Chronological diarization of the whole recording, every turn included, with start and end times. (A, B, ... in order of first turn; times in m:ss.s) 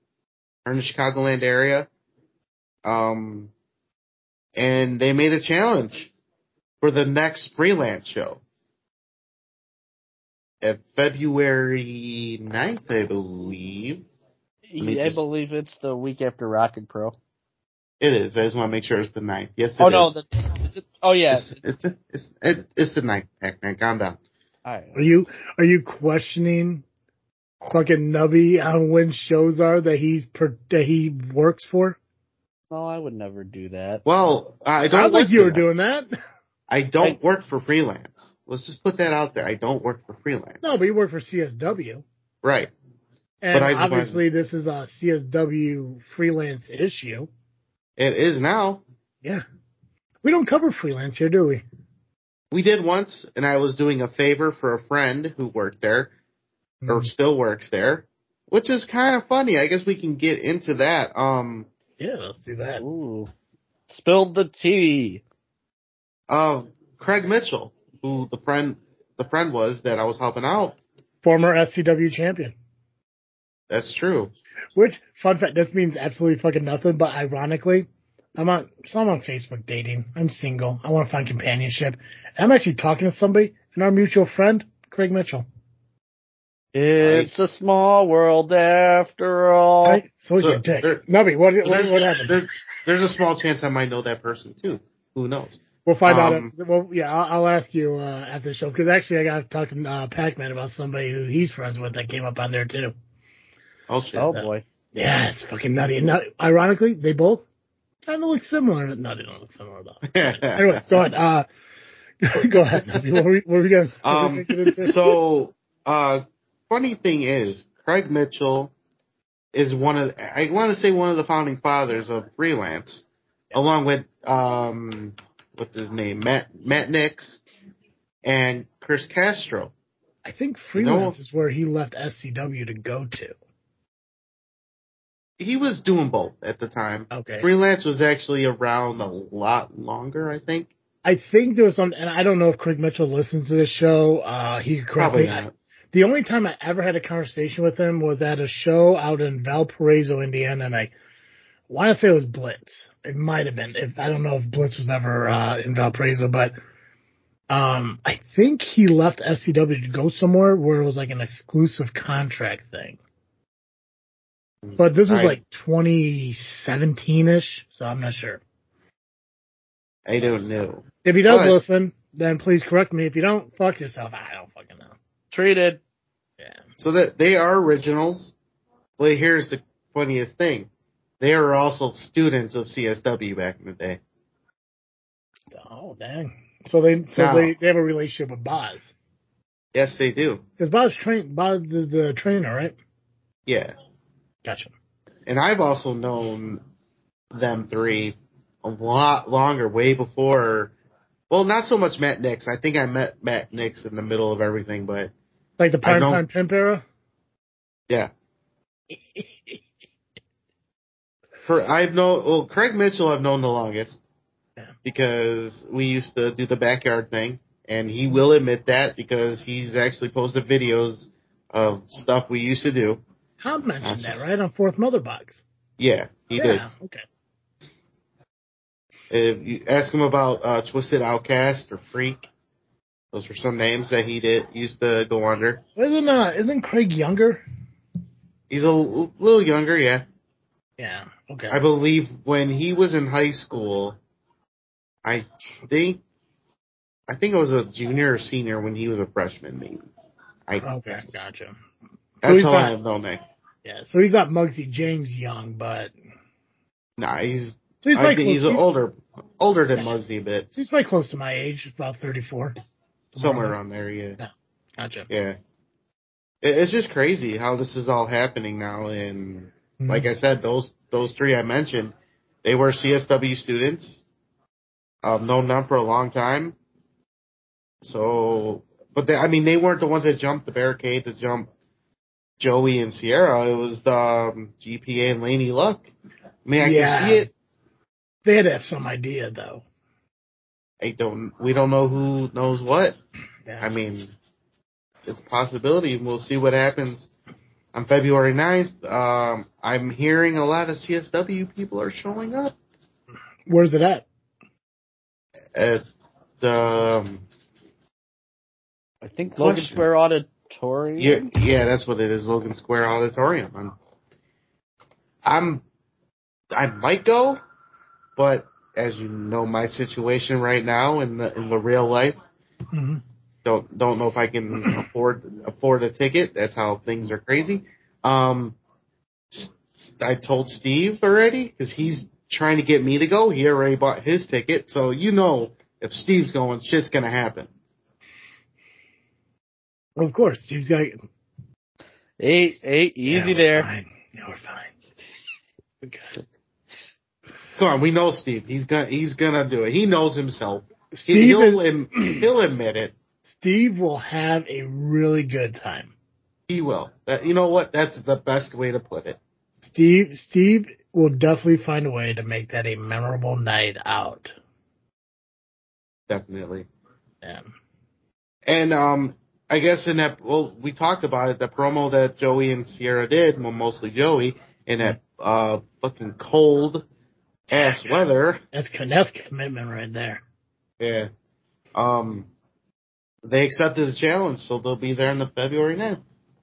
0:00.6-0:01.9 A
0:02.8-0:03.5 A
0:04.6-0:06.1 A
0:06.8-0:08.4 A
0:10.6-0:14.0 A
0:14.7-0:17.2 B
0:14.8-0:15.2 A
0:18.0-0:20.2 A
0:19.8-0:21.6 B
0:21.3-0:24.2 A
0:24.6-0:25.1 B
0:25.0-0:26.8 C
0:27.7-0:32.0 C
0:32.7-0:34.0 B
0:34.0-0:35.6 A
0:34.9-0:36.1 C
0:36.7-0:40.8 A
0:40.6-0:42.0 C
0:42.4-0:42.7 A
0:43.4-0:47.3 C
0:43.5-0:44.2 A
0:48.0-0:48.8 A
0:50.2-0:51.6 C
0:52.5-0:56.1 A
0:56.8-0:57.1 C
0:56.9-1:01.7 A
1:02.0-1:02.8 C
1:02.8-1:03.3 B
1:03.9-1:05.2 B
1:06.3-1:10.8 A
1:11.2-1:12.5 C
1:13.7-1:14.3 A
1:14.8-1:25.4 C
1:26.8-1:30.0 B
1:27.0-1:27.4 A
1:29.8-1:32.4 C
1:30.4-1:31.0 A
1:31.6-1:36.5 A
1:35.8-1:42.9 C
1:43.9-1:44.4 A
1:44.2-1:44.6 B
1:44.3-1:47.4 C
1:48.1-1:51.4 C
1:50.1-1:51.1 A
1:52.2-1:55.0 C
1:54.0-1:58.7 A
1:59.5-2:07.4 A
2:08.2-2:09.7 A
2:10.2-2:13.4 C
2:10.8-2:11.2 A
2:15.4-2:20.7 A
2:17.1-2:17.5 C
2:21.0-2:30.9 C
2:25.0-2:25.5 A
2:31.7-2:36.5 C
2:37.5-2:43.0 C
2:44.6-2:45.4 A
2:44.8-2:48.4 C
2:50.1-2:51.6 A
2:51.0-2:54.9 C
2:55.3-2:55.8 B
2:56.8-2:58.3 A
2:59.0-3:00.7 A
3:01.2-3:04.0 A
3:05.5-3:08.9 C
3:07.2-3:07.5 A
3:09.7-3:10.4 A
3:10.6-3:12.8 C
3:13.5-3:13.8 A
3:14.4-3:14.7 C
3:15.3-3:16.6 A
3:17.3-3:20.7 A
3:21.3-3:25.1 A
3:25.6-3:26.8 C
3:25.8-3:26.2 A
3:28.9-3:29.6 C
3:31.4-3:34.0 A
3:34.8-3:43.0 A
3:43.4-3:45.4 C
3:43.8-3:44.2 A
3:45.8-3:46.6 A
3:46.4-3:47.0 C
3:49.1-3:52.2 A
3:53.1-3:55.6 A
3:55.8-3:57.4 C
3:58.5-4:00.1 A
4:00.8-4:01.6 C
4:01.5-4:04.0 A
4:05.0-4:06.0 A
4:07.1-4:09.8 A
4:10.6-4:11.6 C
4:12.2-4:13.2 A
4:12.2-4:12.7 C
4:13.6-4:15.9 C
4:17.0-4:20.5 A
4:17.8-4:18.6 C
4:20.5-4:22.6 C
4:23.2-4:23.6 C
4:23.2-4:24.2 A
4:24.2-4:25.1 C
4:25.1-4:25.4 A
4:26.4-4:34.0 A
4:29.8-4:30.1 C
4:35.0-4:36.6 A
4:37.8-4:41.5 A
4:42.4-4:45.9 A
4:46.5-4:47.3 A
4:46.6-4:47.3 C
4:48.3-4:49.6 C
4:50.8-4:53.0 A
4:53.6-4:54.1 A
4:55.1-4:57.1 A
4:57.7-5:02.6 A
5:03.5-5:04.1 C
5:05.5-5:05.8 A
5:06.4-5:07.2 A
5:09.0-5:11.3 B
5:09.4-5:09.8 A
5:11.0-5:13.8 A
5:15.2-5:15.6 A
5:16.5-5:17.4 A
5:18.2-5:22.2 A
5:22.7-5:23.0 C
5:23.4-5:28.6 A
5:29.3-5:37.5 A
5:40.0-5:41.0 C
5:42.2-5:43.7 B
5:43.1-5:44.7 C
5:45.8-5:46.2 C
5:47.6-5:52.9 A
5:50.9-5:52.3 C
5:53.3-5:55.9 C
5:56.5-5:59.2 A
5:59.8-6:04.4 C
6:06.1-6:06.7 A
6:08.5-6:16.8 A
6:17.5-6:18.4 A
6:18.5-6:20.2 C
6:20.8-6:21.1 A
6:21.8-6:22.3 A
6:23.2-6:26.0 A